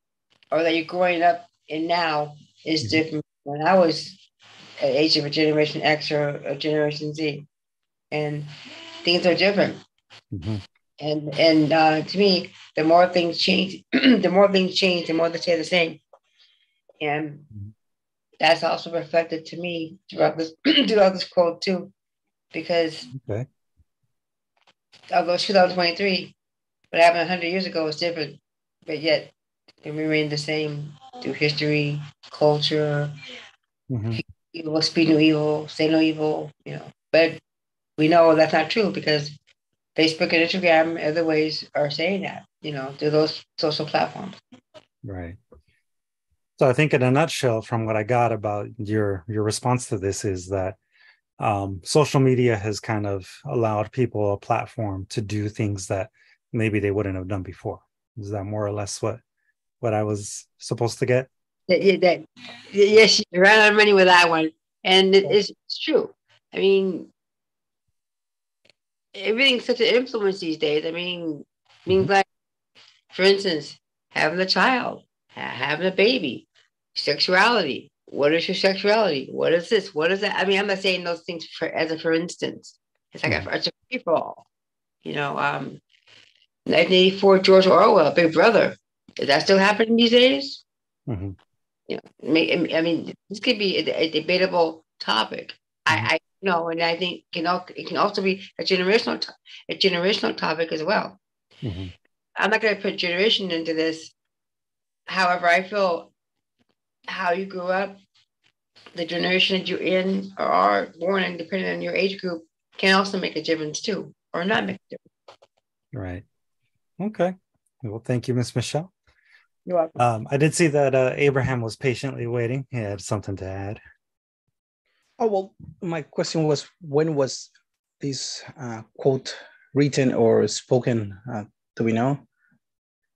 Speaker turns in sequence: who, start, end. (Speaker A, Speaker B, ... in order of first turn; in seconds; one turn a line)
Speaker A: 0.5-4.2
Speaker A: 4.8-7.5
Speaker A: 8.1-8.5
Speaker A: 9.0-9.8
Speaker B: 10.3-10.6
Speaker A: 11.0-16.0
Speaker A: 17.0-17.5
Speaker A: 18.4-21.9
Speaker A: 22.5-23.1
Speaker B: 23.1-23.5
Speaker A: 25.1-26.3
Speaker A: 26.9-29.3
Speaker A: 29.8-33.1
Speaker B: 33.9-34.2
Speaker A: 34.1-37.4
Speaker A: 38.0-39.4
Speaker A: 39.9-44.4
Speaker B: 45.0-45.4
Speaker B: 46.6-50.8
Speaker B: 51.4-59.2
Speaker B: 59.8-61.3
Speaker A: 61.7-67.1
Speaker A: 69.1-72.2
Speaker A: 73.1-84.4
Speaker A: 85.0-85.8
Speaker A: 86.7-90.6
Speaker B: 91.1-91.3
Speaker A: 91.9-101.2
Speaker B: 101.6-101.9
Speaker A: 102.4-104.1
Speaker A: 105.1-106.1
Speaker A: 107.1-108.0
Speaker A: 108.9-115.0
Speaker B: 115.9-116.2
Speaker B: 117.0-118.9
Speaker A: 119.7-120.0
Speaker B: 120.0-123.8
Speaker C: 125.2-132.2